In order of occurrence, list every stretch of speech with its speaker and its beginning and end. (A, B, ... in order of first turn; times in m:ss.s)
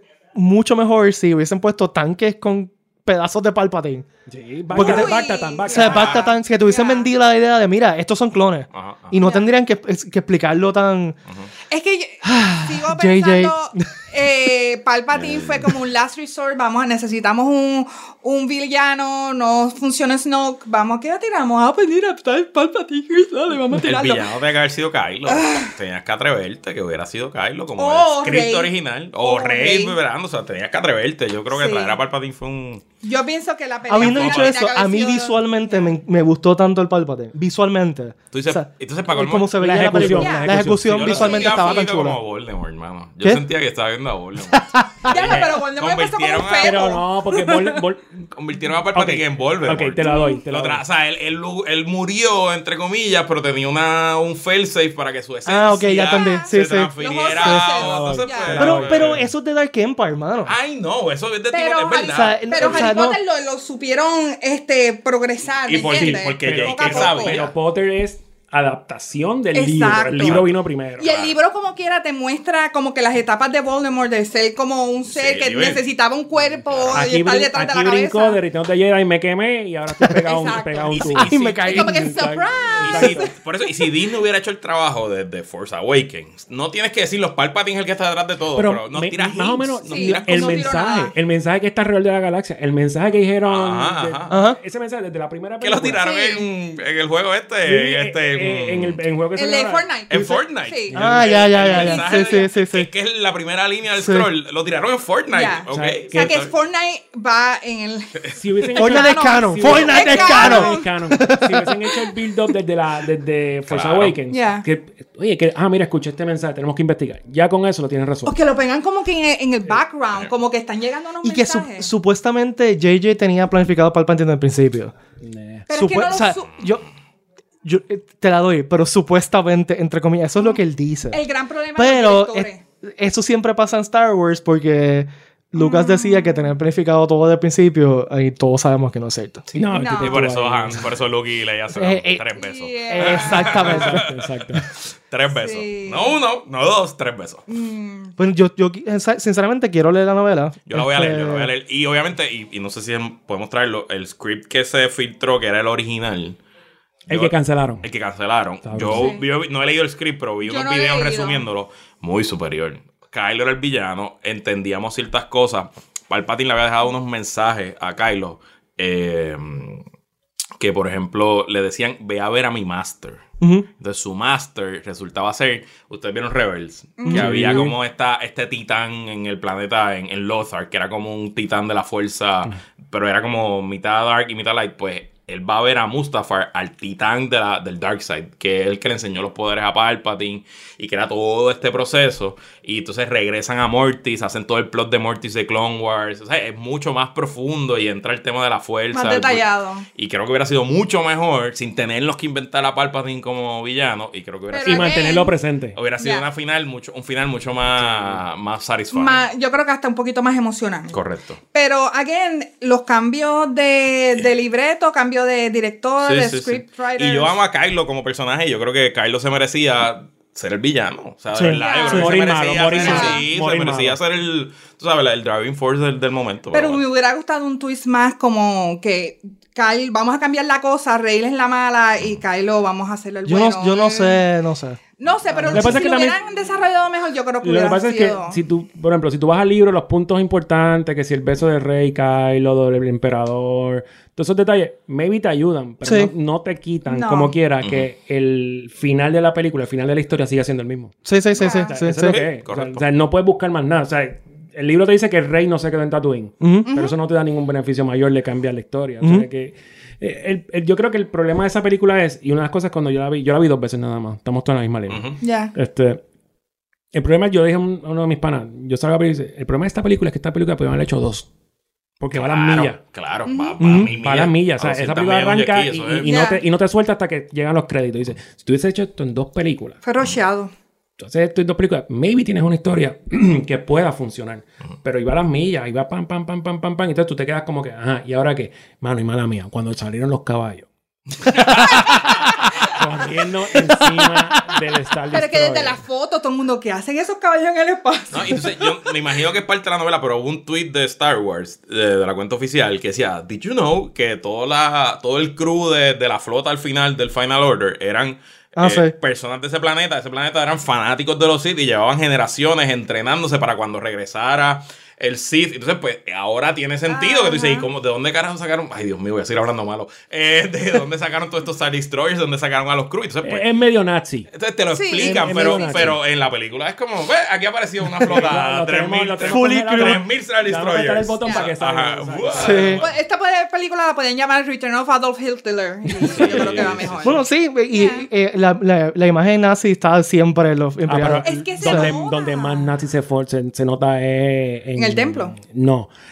0:00.3-0:04.1 A
0:04.3-0:06.2 B
0:04.7-0:11.2 A
0:04.7-0:07.1 C
0:08.7-0:09.2 D
0:09.2-0:09.5 C
0:11.7-0:24.3 C
0:12.2-0:14.2 A
0:15.1-0:15.8 D
0:23.7-0:32.8 D
0:25.3-0:25.7 C
0:27.8-0:30.0 C
0:31.5-0:32.0 C
0:33.0-0:35.9 C
0:33.9-0:42.2 A
0:34.0-0:34.6 D
0:38.3-0:40.1 D
0:39.6-0:41.2 B
0:40.1-0:40.5 C
0:40.8-0:46.9 D
0:41.1-0:41.9 C
0:45.0-0:47.8 C
0:46.6-0:48.3 B
0:48.4-0:59.2 D
0:48.9-0:50.8 B
0:50.0-0:50.4 C
0:55.4-0:57.7 A
0:56.1-0:58.6 C
0:57.8-0:59.3 B
0:58.6-1:00.6 A
1:00.4-1:03.0 D
1:01.5-1:07.4 C
1:02.1-1:03.2 A
1:05.6-1:07.5 D
1:05.9-1:11.1 B
1:09.5-1:10.4 C
1:09.8-1:11.4 D
1:11.0-1:18.4 C
1:15.1-1:15.8 D
1:16.4-1:17.1 D
1:16.9-1:23.3 B
1:20.1-1:23.3 C
1:20.9-1:21.4 D
1:21.2-1:22.1 A
1:22.8-1:30.7 D
1:28.6-1:36.1 B
1:29.9-1:31.1 C
1:33.4-1:34.4 D
1:34.3-1:34.6 A
1:35.6-1:39.0 D
1:36.0-1:36.4 C
1:37.6-1:40.3 B
1:39.4-1:41.0 C
1:40.1-1:46.5 D
1:40.9-1:41.3 B
1:40.9-1:42.9 A
1:41.6-1:42.5 C
1:44.0-1:44.3 A
1:45.3-1:50.9 C
1:45.7-1:46.3 B
1:48.3-1:58.4 B
1:48.8-1:51.8 A
1:49.6-1:50.3 D
1:53.7-1:54.2 D
1:54.3-1:54.6 C
1:58.3-2:01.9 C
2:01.2-2:04.9 A
2:05.2-2:05.7 B
2:05.7-2:06.6 C
2:05.7-2:06.8 A
2:07.6-2:11.2 A
2:11.1-2:12.6 C
2:11.8-2:19.5 A
2:15.6-2:16.5 C
2:19.5-2:20.9 B
2:19.7-2:20.2 C
2:19.9-2:27.5 D
2:21.7-2:22.4 A
2:22.4-2:23.8 C
2:22.9-2:24.1 A
2:23.7-2:24.7 B
2:25.3-2:26.2 C
2:27.5-2:28.1 C
2:28.2-2:31.5 A
2:30.7-2:36.4 D
2:37.1-2:37.9 B
2:37.1-2:49.8 D
2:38.6-2:39.1 B
2:38.9-2:39.2 C
2:40.4-2:41.4 C
2:50.6-2:53.2 D
2:53.4-2:53.6 A
2:53.8-3:25.0 D
2:57.0-2:57.7 C
2:57.1-2:57.8 B
3:18.9-3:19.9 C
3:24.5-3:25.3 C
3:24.6-3:25.8 B
3:25.8-3:29.2 D
3:26.0-3:26.3 C
3:27.8-3:28.2 B
3:28.9-3:31.0 C
3:30.9-3:31.4 D
3:31.5-3:37.4 C
3:36.0-3:46.8 D
3:41.3-3:41.6 A
3:41.6-3:43.2 C
3:41.9-3:44.0 B
3:46.5-3:54.2 C
3:53.2-3:54.8 A
3:55.0-3:58.4 C
3:55.5-3:56.2 B
3:55.5-3:55.8 A
3:57.4-4:11.0 B
4:05.8-4:06.1 A
4:06.9-4:07.3 C
4:07.6-4:07.9 D
4:11.0-4:12.2 A
4:11.4-4:11.7 C
4:11.6-4:26.0 B
4:12.0-4:12.8 D
4:16.4-4:16.7 A
4:16.6-4:17.0 C
4:19.0-4:19.3 A
4:24.9-4:25.2 D
4:25.2-4:25.5 C
4:26.9-4:31.3 B
4:32.0-4:32.8 B
4:32.1-4:36.1 D
4:33.3-4:33.6 C
4:33.6-4:33.9 A
4:33.7-4:39.8 B
4:36.0-4:36.4 C
4:39.8-4:40.5 C
4:41.0-4:50.7 B
4:51.3-4:52.1 D
4:52.7-4:55.8 B
4:54.0-4:54.6 A
4:55.1-4:58.9 C
4:58.1-5:23.4 D
5:08.6-5:08.9 A
5:16.9-5:17.7 C
5:23.2-5:24.3 B
5:24.3-5:32.9 D
5:24.7-5:25.9 C
5:25.0-5:26.0 B
5:28.0-5:32.7 B
5:29.2-5:30.0 A
5:31.2-5:31.5 C
5:32.4-5:32.8 A
5:32.8-5:38.1 C
5:36.0-5:37.2 D
5:37.0-5:41.9 A
5:40.9-5:45.9 B
5:41.2-5:42.8 C
5:44.8-5:45.4 C